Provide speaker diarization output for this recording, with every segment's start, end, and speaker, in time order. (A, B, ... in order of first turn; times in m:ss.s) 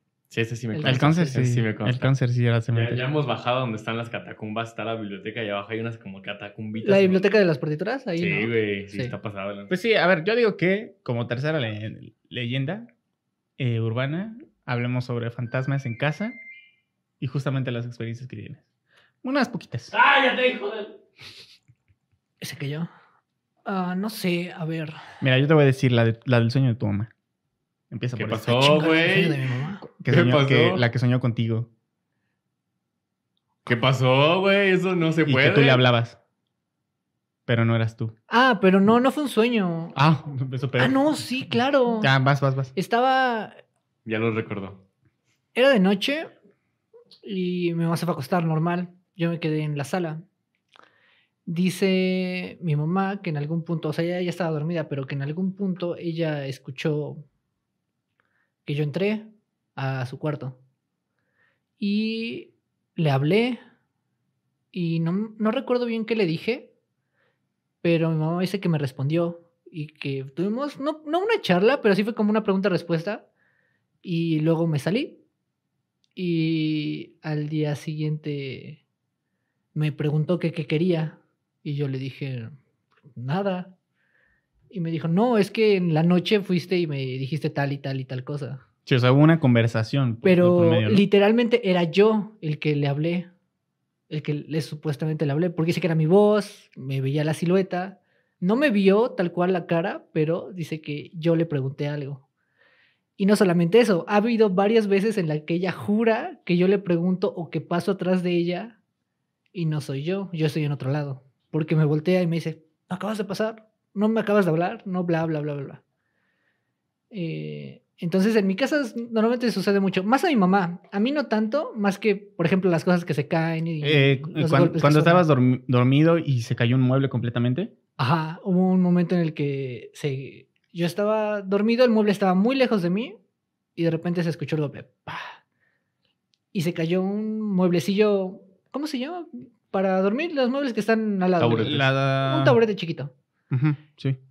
0:00.3-0:02.1 A
0:00.7-0:01.3 B
0:00.8-0:03.0 C
0:02.7-0:07.2 A
0:06.8-0:09.1 B
0:08.2-0:09.7 A
0:09.7-0:12.9 C
0:13.6-0:16.4 C
0:17.2-0:18.6 C
0:19.2-0:19.9 C
0:19.9-0:21.0 A
0:22.4-0:22.9 B
0:23.6-0:25.0 B
0:25.2-0:27.1 C
0:27.9-0:28.7 C
0:28.1-0:29.4 A
0:28.5-0:29.8 B
0:29.9-0:31.7 C
0:30.1-0:30.8 A
0:33.6-0:35.8 A
0:35.2-0:36.2 C
0:37.5-0:38.1 C
0:38.3-0:39.9 B
0:39.9-0:40.9 C
0:40.8-0:42.1 B
0:42.0-0:42.7 C
0:42.7-0:43.5 B
0:44.0-0:44.8 A
0:45.5-0:46.3 B
0:47.2-0:50.2 B
0:51.4-0:57.2 B
0:58.6-1:00.6 B
1:01.8-1:03.6 B
1:04.7-1:06.7 B
1:07.8-1:13.2 B
1:14.0-1:15.2 B
1:16.2-1:18.8 B
1:19.7-1:22.6 B
1:23.1-1:23.7 B
1:24.7-1:28.6 B
1:28.8-1:31.0 C
1:30.2-1:33.3 B
1:34.1-1:42.2 B
1:43.2-1:48.8 B
1:49.5-1:55.8 B
1:57.1-2:05.2 B
2:03.8-2:07.7 C
2:08.0-2:13.1 B
2:13.8-2:15.3 B
2:16.5-2:23.1 B
2:21.4-2:21.9 A
2:21.6-2:22.6 C
2:23.5-2:24.2 C